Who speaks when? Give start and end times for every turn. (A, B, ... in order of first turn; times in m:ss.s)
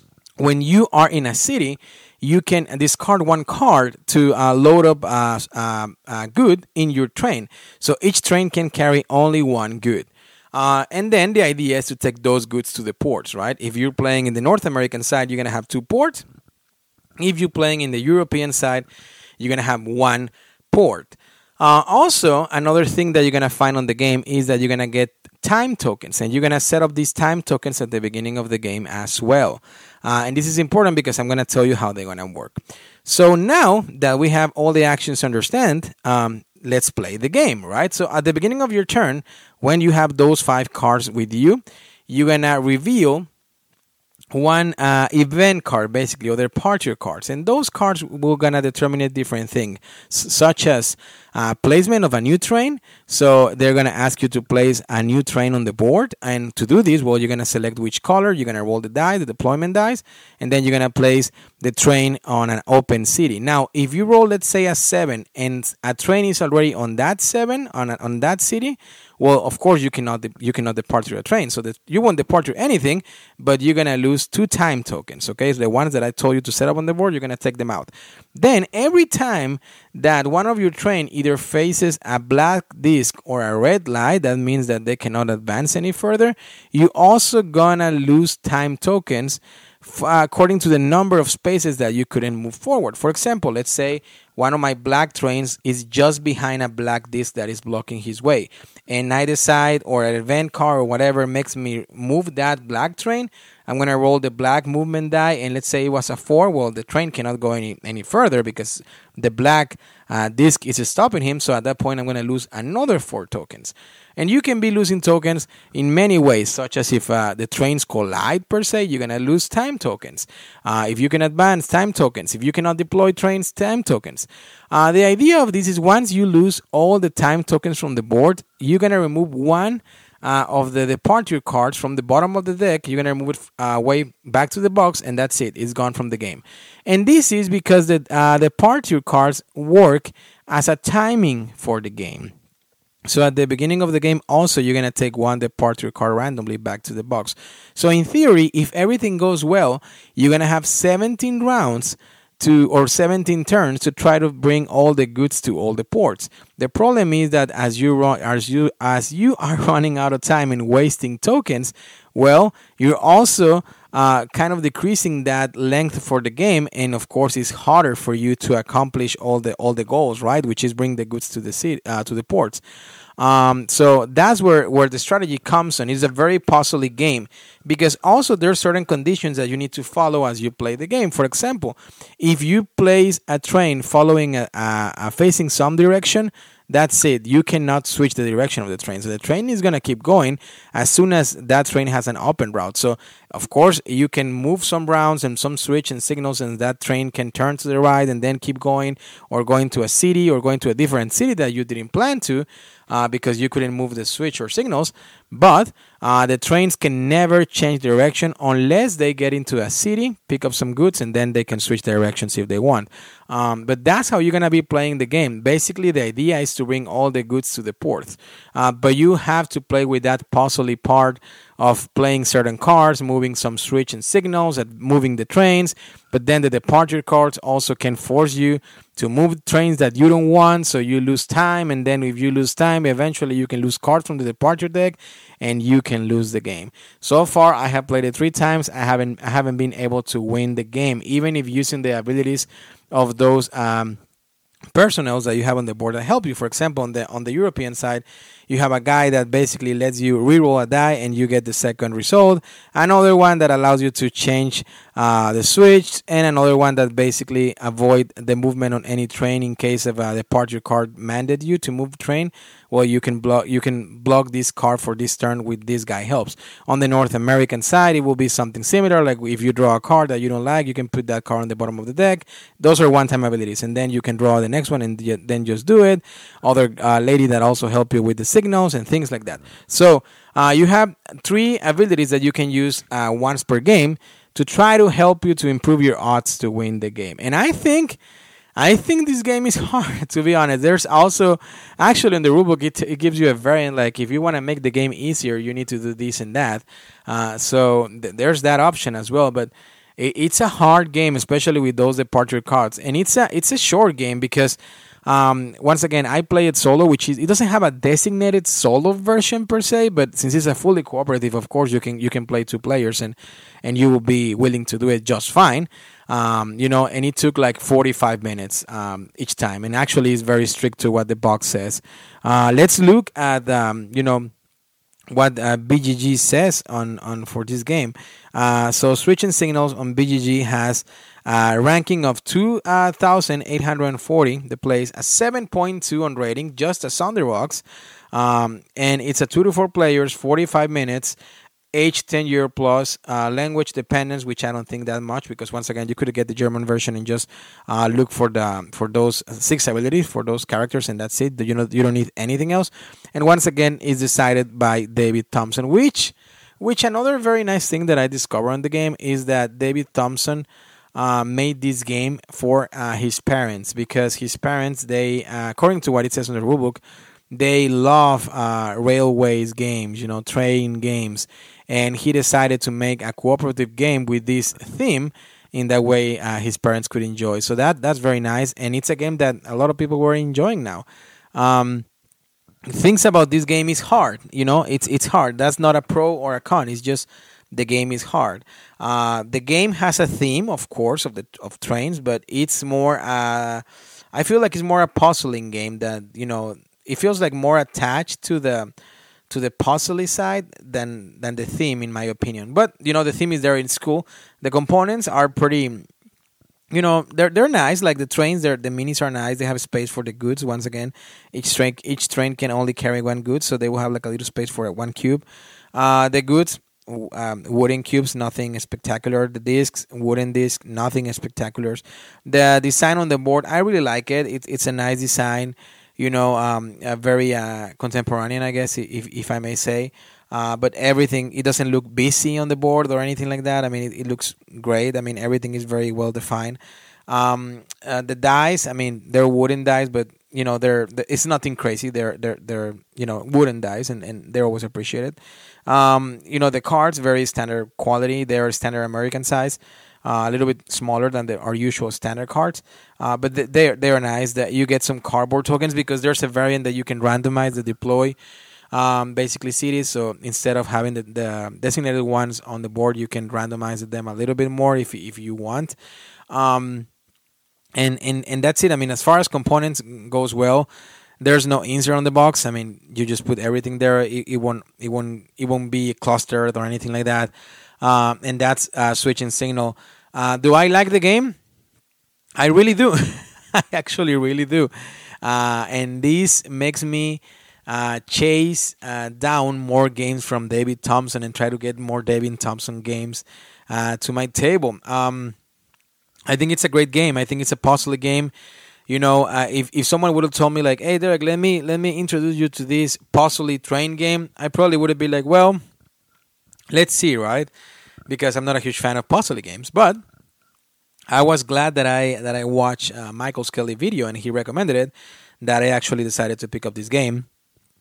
0:00.4-0:16.2 A
0:17.2-0:18.9 A
0:19.4-0:43.3 A
0:44.3-2:22.3 A
2:23.1-2:52.6 A
2:53.2-4:04.0 A
4:04.7-4:48.0 A
4:48.6-5:24.3 A
5:25.1-5:41.2 A
5:41.7-6:21.9 A
6:22.7-6:38.7 A
6:39.3-6:45.9 A
6:46.7-7:38.2 A
7:38.7-7:45.8 A
7:46.3-7:46.9 A
7:47.8-7:50.7 A
7:51.2-8:01.4 A
8:02.4-8:04.7 A
8:05.2-8:15.4 A
8:16.3-8:18.3 A
8:18.9-8:25.6 A
8:26.7-8:27.5 A
8:28.1-8:30.0 A
8:31.1-8:37.3 A